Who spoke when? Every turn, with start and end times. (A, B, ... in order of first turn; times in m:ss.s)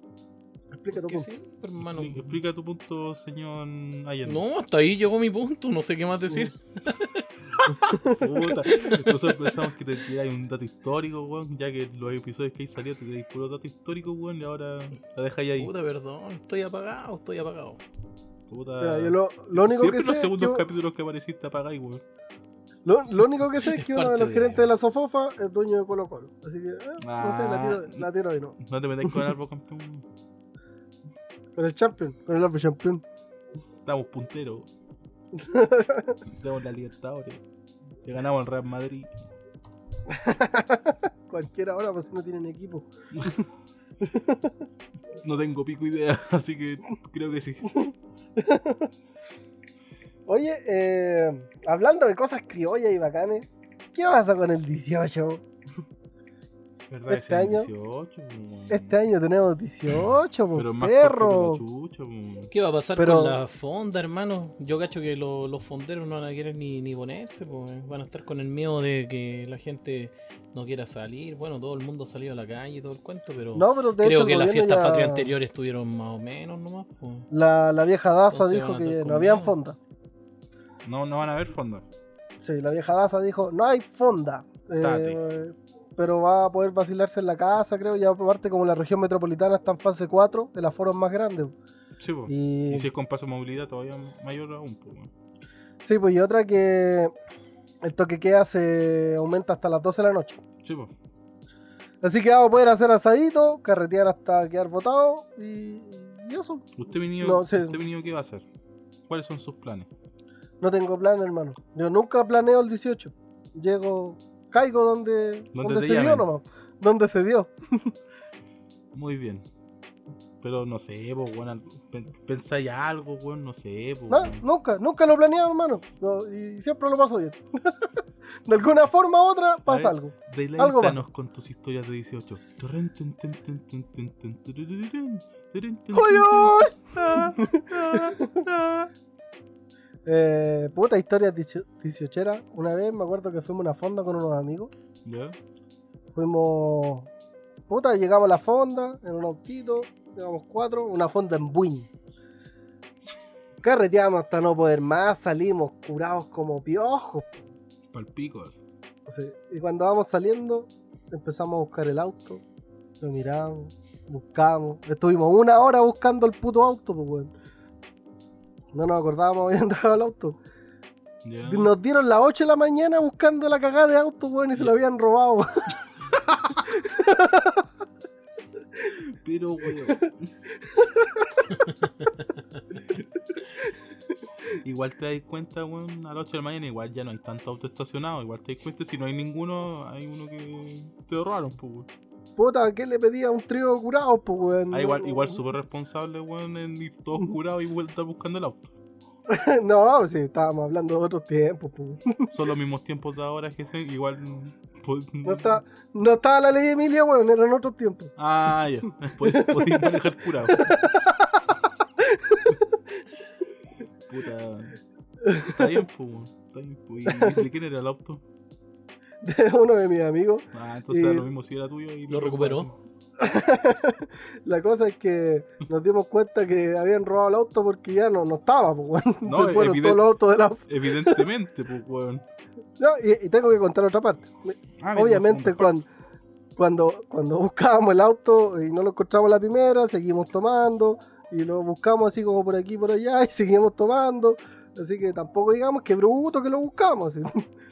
0:00.8-0:01.3 A
0:00.9-0:02.3 B
0:01.8-0:04.4 C
0:04.3-0:07.2 B
0:07.6-0:15.7 C
0:08.8-0:09.2 B
0:15.6-0:17.8 B
0:18.5-0:22.0 C
0:18.8-0:20.6 A
0:22.8-0:29.2 A
0:23.6-0:24.7 B
0:27.0-0:28.0 C
0:28.6-0:30.0 C
0:31.6-0:33.0 A
0:33.9-0:34.7 C
0:35.3-0:36.2 A
0:36.3-0:37.4 C
0:38.0-0:39.1 C
0:40.1-0:43.4 A
0:43.1-0:43.4 C
0:44.0-0:44.5 A
0:45.2-0:47.7 C
0:47.8-0:48.9 A
0:50.3-0:55.4 A
0:56.9-0:59.0 C
0:57.1-0:57.7 A
0:58.7-1:01.6 A
1:00.6-1:02.5 C
1:02.5-1:17.2 B
1:03.0-1:03.4 A
1:13.6-1:15.3 A
1:17.3-1:19.8 A
1:18.3-1:19.6 B
1:20.8-1:21.8 C
1:22.4-1:31.5 A
1:24.8-1:25.2 C
1:32.0-1:35.1 C
1:32.3-1:32.9 A
1:35.8-1:37.1 A
1:37.8-1:40.4 A
1:40.6-1:40.9 C
1:42.0-1:46.7 A
1:46.8-1:48.4 C
1:47.2-1:47.8 A
1:49.1-1:49.9 C
1:50.6-1:57.9 A
1:55.5-1:56.3 C
1:58.9-1:59.4 C
2:00.4-2:04.4 C
2:04.1-2:07.9 A
2:08.4-2:11.0 A
2:09.7-2:18.9 C
2:15.9-2:18.4 A
2:20.0-2:24.7 A
2:25.0-2:25.4 C
2:26.1-2:27.1 A
2:27.7-2:31.9 A
2:33.6-2:37.4 A
2:37.9-2:38.6 C
2:39.1-2:42.4 A
2:43.0-2:47.3 A
2:48.7-2:50.4 A
2:51.2-2:51.7 C
2:51.4-2:55.8 A
2:56.8-2:57.6 A
2:59.1-3:00.3 C
3:04.5-3:11.9 C
3:12.4-3:15.4 A
3:14.7-3:18.7 C
3:19.3-3:22.3 A
3:22.3-3:25.6 C
3:25.2-3:28.1 A
3:28.2-3:30.8 C
3:29.2-3:30.0 A
3:30.5-3:31.4 A
3:32.0-3:32.6 A
3:34.1-3:34.8 C
3:35.2-3:35.6 A
3:35.4-3:38.2 C
3:37.0-3:37.4 A
3:39.2-3:41.3 A
3:40.5-3:42.8 C
3:42.1-3:42.7 B
3:43.2-3:51.2 A
3:49.2-3:50.1 C
3:50.7-3:52.2 C
3:52.8-3:55.9 A
3:54.8-3:55.8 C
3:56.6-4:07.5 A